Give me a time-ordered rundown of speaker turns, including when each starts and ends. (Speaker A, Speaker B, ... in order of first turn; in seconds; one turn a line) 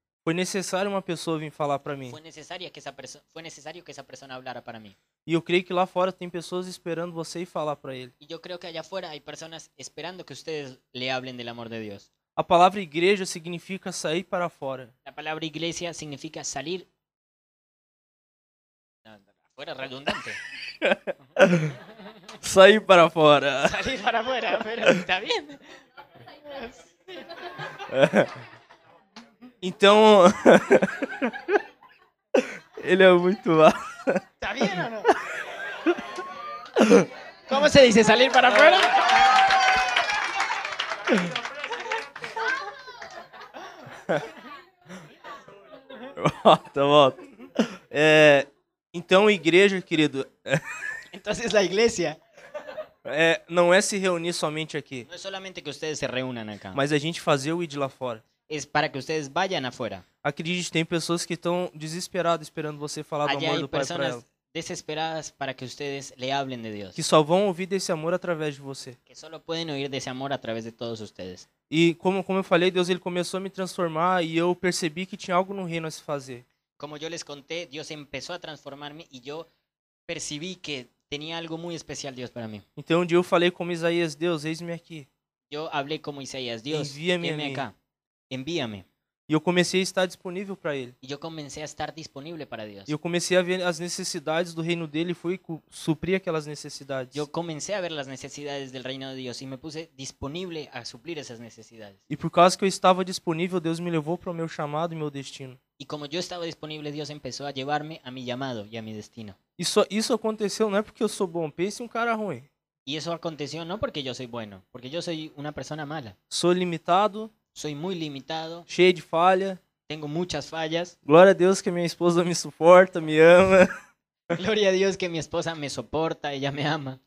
Speaker A: 0.2-2.2
Speaker B: 2.1-5.0
Speaker A: 5.3-8.1
Speaker B: 8.2-12.1
Speaker A: 12.4-14.9
Speaker B: 15.1-16.9
Speaker B: 19.1-20.4
Speaker A: 20.8-21.8
Speaker A: 22.4-23.8
Speaker B: 23.6-25.8
Speaker B: 26.5-27.2
Speaker A: 27.9-28.3
Speaker A: 29.6-31.6
Speaker A: 32.4-35.2
Speaker B: 34.4-35.1
Speaker A: 36.8-37.1
Speaker B: 37.5-39.3
Speaker A: 46.2-50.6
Speaker B: 51.1-52.2
Speaker A: 53.0-55.1
Speaker B: 55.1-56.8
Speaker A: 56.7-58.2
Speaker B: 58.5-60.0
Speaker A: 60.2-64.2
Speaker B: 63.2-67.0
Speaker A: 67.0-69.0
Speaker B: 69.1-71.5
Speaker A: 71.7-76.5
Speaker B: 76.8-79.5
Speaker B: 80.1-82.7
Speaker A: 82.8-85.1
Speaker B: 85.5-87.8
Speaker A: 86.7-87.6
Speaker B: 88.3-88.9
Speaker A: 89.3-91.0
Speaker B: 91.0-92.9
Speaker A: 92.9-97.2
Speaker B: 97.1-102.0
Speaker A: 102.1-105.6
Speaker B: 105.8-109.4
Speaker A: 109.6-112.5
Speaker B: 112.9-116.2
Speaker A: 116.3-117.3
Speaker B: 117.5-118.7
Speaker A: 118.7-119.6
Speaker B: 119.9-121.0
Speaker A: 121.1-123.7
Speaker B: 124.3-127.0